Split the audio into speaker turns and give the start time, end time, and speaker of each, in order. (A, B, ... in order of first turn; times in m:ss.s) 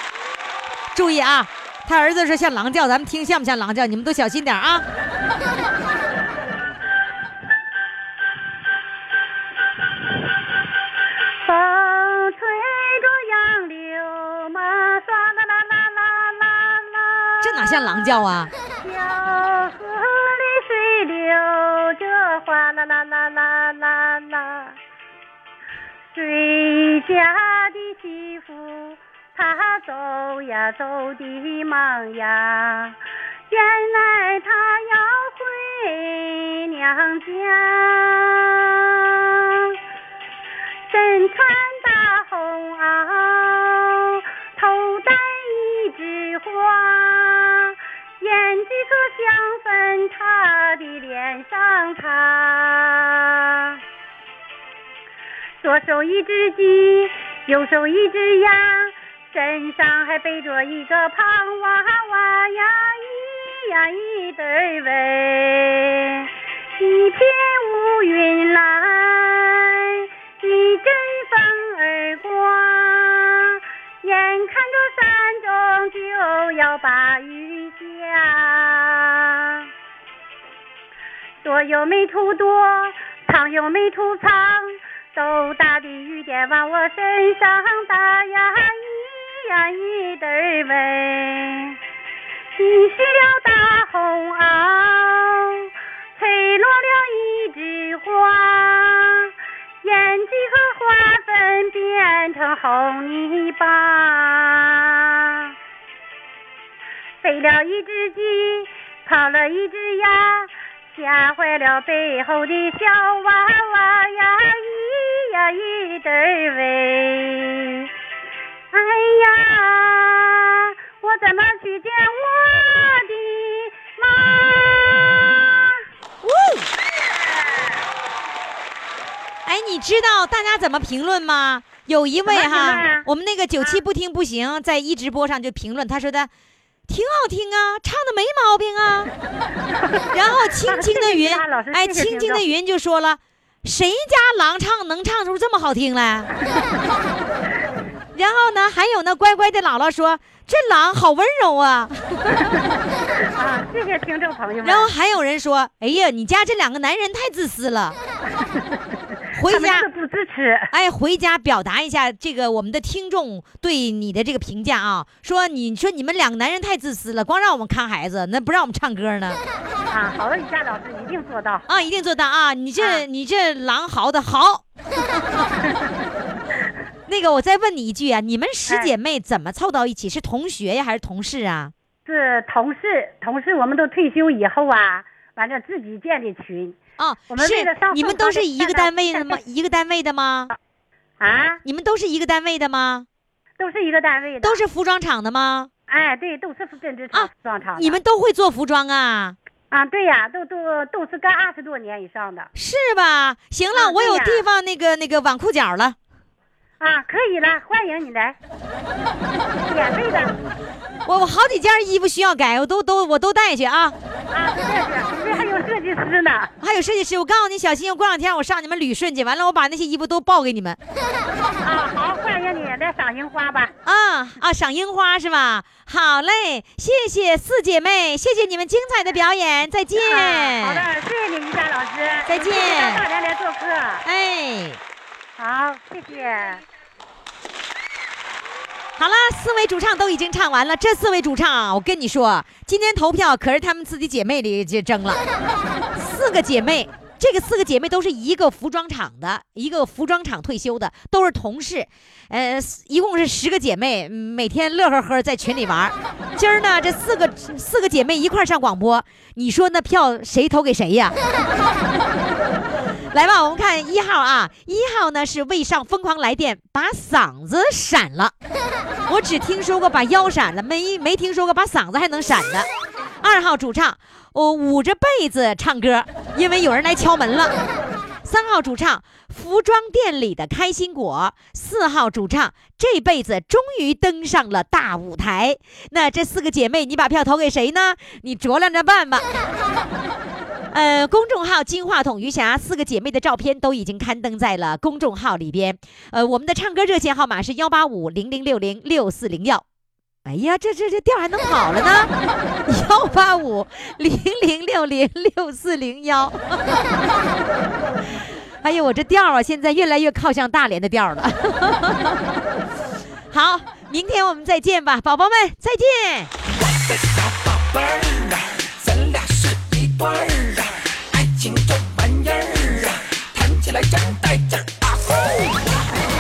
0:00.9-0:04.8 A
0:11.4-0:18.2 B
0:17.4-0:18.5 A
0:18.8-0:24.8 B
0:26.1-0:33.0 B
0:33.5-0:39.7 B
0:40.9-0:53.8 B
0:55.6-1:06.3 B
1:06.8-1:19.6 B
1:21.4-1:31.8 B
1:32.6-1:39.3 B
1:39.8-1:45.5 B
1:47.2-1:57.9 B
1:58.7-2:05.8 B
2:06.2-2:06.7 A
2:09.4-2:16.3 A
2:12.3-2:13.1 B
2:16.9-2:19.1 A
2:19.8-2:22.5 B
2:20.1-2:26.3 A
2:28.2-2:32.5 A
2:33.3-2:34.9 B
2:34.6-2:38.0 A
2:38.4-2:38.8 B
2:39.3-2:39.9 A
2:39.4-2:40.7 B
2:40.7-2:49.4 A
2:49.9-2:51.7 B
2:51.7-2:55.4 A
2:52.8-2:53.0 B
2:57.1-3:01.7 A
2:58.7-2:58.9 B
3:02.1-3:06.8 B
3:07.0-3:10.5 A
3:07.3-3:09.4 B
3:11.2-3:11.6 B
3:11.6-3:13.1 A
3:13.6-3:14.6 B
3:14.4-3:15.7 A
3:15.9-3:18.0 B
3:17.1-3:19.4 A
3:19.7-3:22.5 B
3:22.6-3:26.0 A
3:23.7-3:24.4 B
3:26.8-3:28.4 B
3:29.6-3:30.4 B
3:31.1-3:34.0 A
3:34.3-3:36.5 B
3:35.3-3:35.6 A
3:36.6-3:40.8 A
3:41.6-3:43.7 B
3:43.8-3:50.9 A
3:50.0-3:54.1 B
3:52.3-3:53.0 A
3:54.0-3:54.8 A
3:55.4-3:56.6 B
3:59.0-4:05.2 A
4:05.9-4:21.2 A
4:23.1-4:28.3 A
4:29.1-4:32.7 A
4:33.2-4:37.5 A
4:38.2-4:49.3 A
4:50.7-4:59.6 A
5:00.2-5:02.1 A
5:02.7-5:06.9 A
5:08.6-5:12.4 A
5:13.3-5:16.3 A
5:16.6-5:25.8 C